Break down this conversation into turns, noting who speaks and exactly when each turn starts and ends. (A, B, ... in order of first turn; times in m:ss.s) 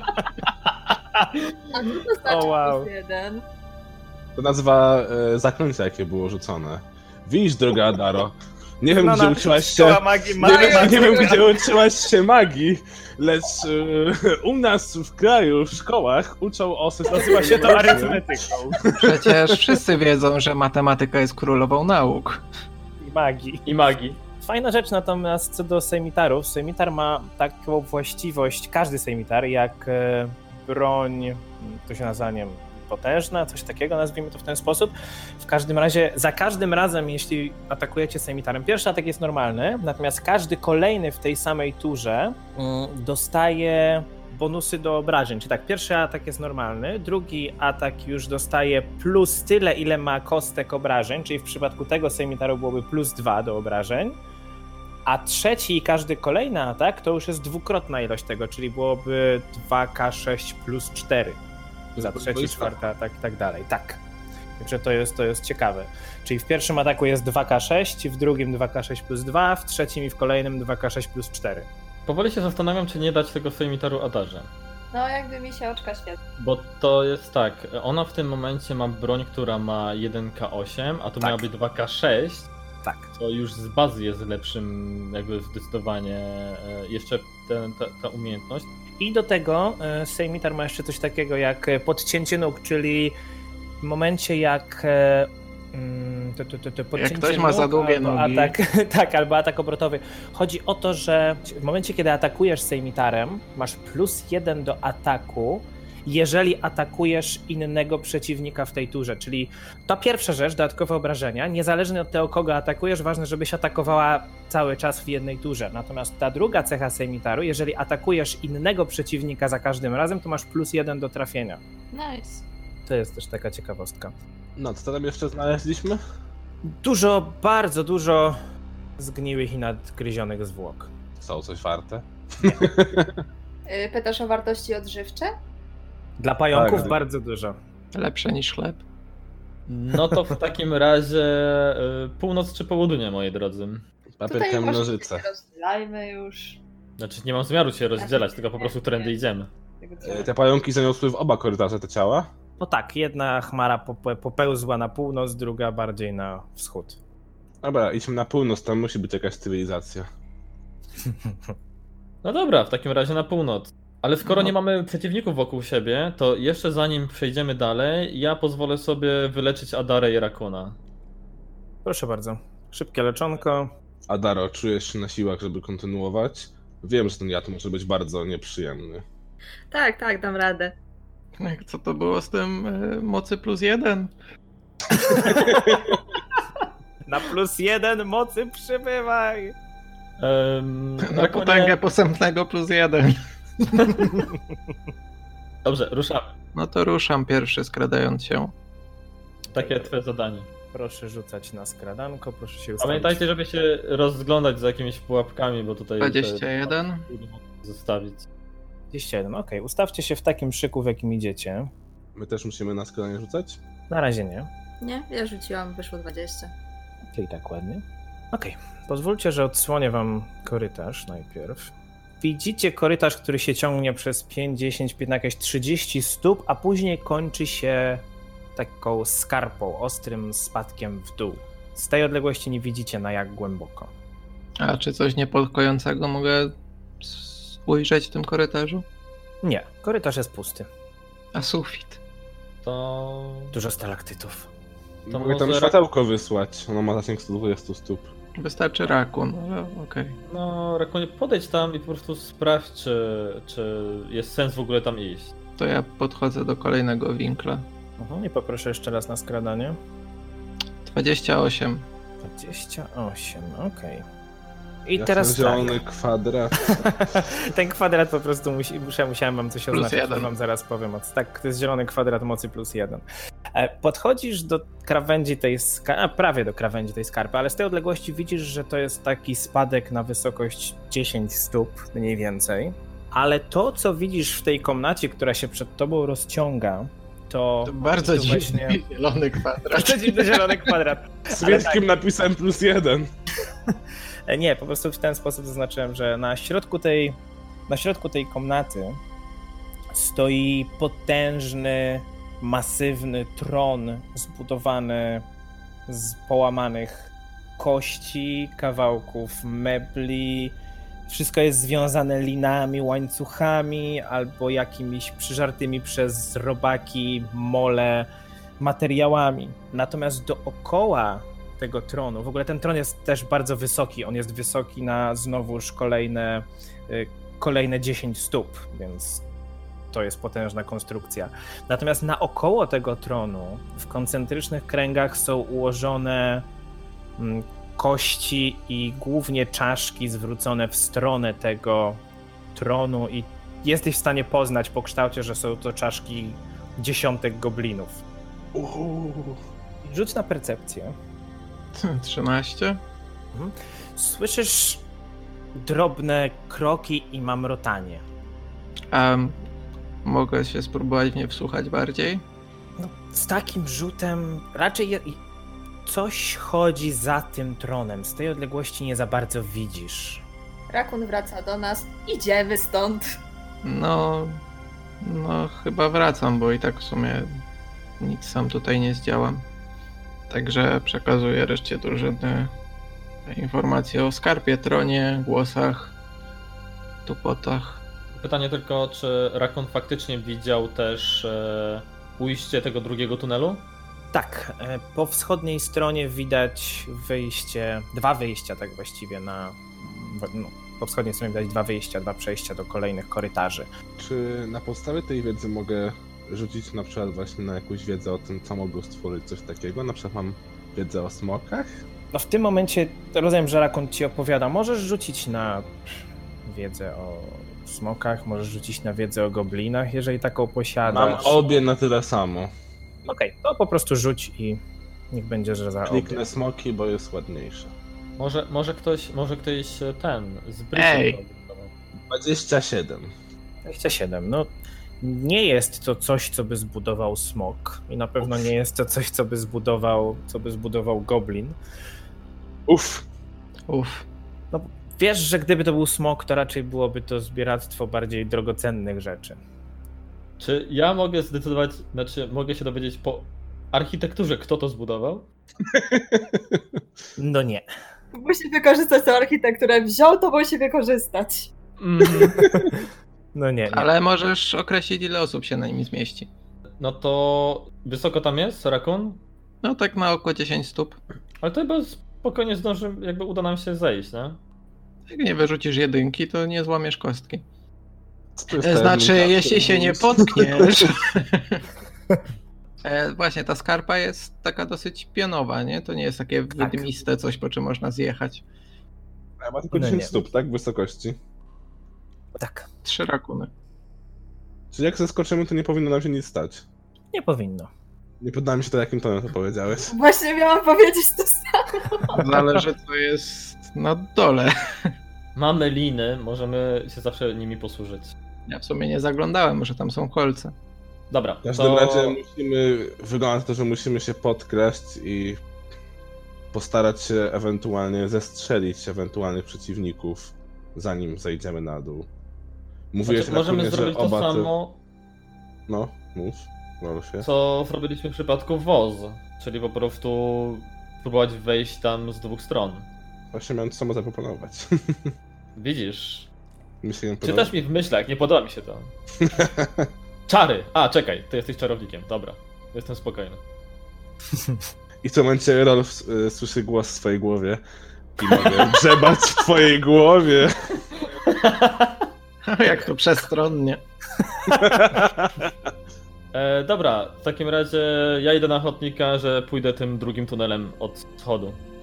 0:01.7-0:03.4 A
0:02.2-0:02.9 B
0:04.4-0:18.2 C
0:08.9-0:11.4 B
0:10.4-0:11.4 A
0:17.1-0:18.8 B
0:18.8-0:19.7 C
0:19.0-0:22.4 D
0:23.0-0:23.7 B
0:23.6-0:24.2 E
0:24.4-0:54.2 B
0:55.0-1:01.4 B
1:01.9-1:04.0 B
1:02.0-1:02.8 C
1:04.6-1:11.7 B
1:12.1-1:14.5 E
1:14.9-1:16.2 A
1:16.4-1:22.5 E
1:22.8-1:23.1 B
1:23.2-1:28.7 E
1:29.0-1:33.1 B
1:33.8-2:01.6 B
1:37.0-1:38.6 D
2:01.9-2:02.4 A
2:02.8-2:04.1 B
2:04.6-2:06.0 C
2:06.6-2:08.4 B
2:09.0-2:10.9 B
2:11.2-2:13.1 C
2:13.6-2:15.3 A
2:16.2-2:17.6 B
2:16.5-2:17.0 C
2:17.9-2:18.8 D
2:19.7-2:23.8 E
2:24.2-2:25.2 C
2:24.2-2:26.6 A
2:27.0-2:29.5 E
2:28.0-2:29.2 A
2:29.8-2:30.3 A
2:30.0-2:32.3 C
2:32.6-2:37.0 B
2:37.6-2:40.1 C
2:41.1-2:41.3 B
2:42.2-2:50.8 E
2:51.8-2:53.7 B
2:54.1-2:59.0 C
2:59.7-3:00.8 A
3:01.4-3:04.1 D
3:04.9-3:05.8 B
3:07.0-3:09.5 B
3:10.2-3:11.8 E
3:11.0-3:14.1 D
3:13.8-3:14.0 E
3:15.6-3:16.3 E
3:16.5-3:18.5 D
3:19.5-3:19.9 B
3:19.5-3:20.5 E
3:20.7-3:23.2 B
3:22.8-3:28.2 E
3:26.0-3:27.1 D
3:28.9-3:31.7 B
3:32.2-3:33.6 C
3:33.9-3:34.5 B
3:34.8-3:36.5 A
3:37.1-3:53.9 B
3:54.6-3:58.8 D
3:59.4-4:00.7 B
4:01.3-4:02.0 D
4:02.6-4:03.5 E
4:03.5-4:04.5 B
4:05.0-4:08.1 C
4:05.1-4:05.8 E
4:08.4-4:10.2 D
4:10.3-4:15.3 E
4:15.6-4:17.6 D
4:18.0-4:19.8 B
4:20.8-4:21.8 D
4:22.2-4:24.0 B
4:24.8-4:25.8 B
4:25.0-4:26.6 C
4:26.6-4:48.8 B
4:29.7-4:30.3 D
4:47.6-4:50.8 D
4:49.7-4:51.9 B
4:51.3-4:53.1 C
4:54.3-4:57.2 B
4:57.7-4:59.0 B
4:59.9-5:05.2 B
5:05.9-5:10.5 B
5:11.1-5:18.1 B
5:18.6-5:29.2 B
5:29.9-5:36.4 B
5:37.2-5:42.0 B
5:42.5-5:48.0 B
5:48.5-5:49.4 C
5:49.8-5:50.9 B
5:51.7-5:52.8 D
5:53.3-5:54.8 B
5:55.5-5:58.0 B
5:58.9-5:59.4 D
6:00.0-6:02.2 D
6:02.8-6:05.2 B
6:05.8-6:10.2 B
6:10.7-6:13.0 A
6:13.6-6:14.4 D
6:15.0-6:17.4 D
6:18.0-6:19.4 D
6:20.3-6:22.5 D
6:23.3-6:25.9 D
6:27.0-6:27.8 D
6:28.2-6:33.6 E
6:34.1-6:43.7 B
6:44.0-6:51.8 C
6:52.1-6:55.7 B
6:56.4-7:01.4 B
7:00.9-7:02.5 C
7:03.1-7:06.2 B
7:05.9-7:07.7 C
7:08.2-7:11.7 E
7:10.7-7:11.2 D
7:12.1-7:13.1 C
7:13.6-7:14.5 B
7:15.0-7:21.6 B
7:22.7-7:23.0 C
7:23.7-7:24.0 D
7:24.5-7:29.4 B
7:30.4-7:35.3 E
7:35.7-7:36.8 C
7:37.2-7:37.6 B
7:38.1-7:41.5 A
7:41.8-7:42.4 E
7:42.1-7:42.8 B
7:42.4-7:42.7 C
7:43.3-7:43.9 B
7:43.7-7:46.3 D
7:46.8-7:49.2 E
7:49.6-7:51.0 D
7:51.4-7:54.4 E
7:55.1-7:57.4 D
7:58.4-8:00.9 C
7:58.6-8:01.6 D
8:02.8-8:08.4 D
8:06.6-8:07.0 B
8:09.4-8:11.2 C
8:09.7-8:10.2 B
8:12.4-8:12.7 B
8:12.8-8:13.5 D
8:14.7-8:16.6 C
8:17.1-8:17.7 B
8:18.2-8:19.9 C
8:19.9-8:22.2 A
8:22.1-8:24.9 D
8:22.2-8:22.6 B
8:25.4-8:28.1 E
8:28.5-8:30.5 D
8:31.1-8:32.2 E
8:31.4-8:35.4 C
8:36.5-8:42.1 C
8:42.9-8:44.5 C
8:43.1-8:44.8 E
8:45.7-8:47.3 C
8:47.2-8:52.9 E
8:53.3-8:55.1 C
8:55.6-8:56.3 E
8:56.8-8:57.5 C
8:57.2-8:58.9 E
8:59.2-8:59.9 C
9:00.3-9:03.4 E
9:05.0-9:07.6 C
9:08.2-9:10.5 C
9:11.2-9:12.1 E
9:12.4-9:13.8 D
9:14.5-9:15.5 C
9:16.3-9:21.6 E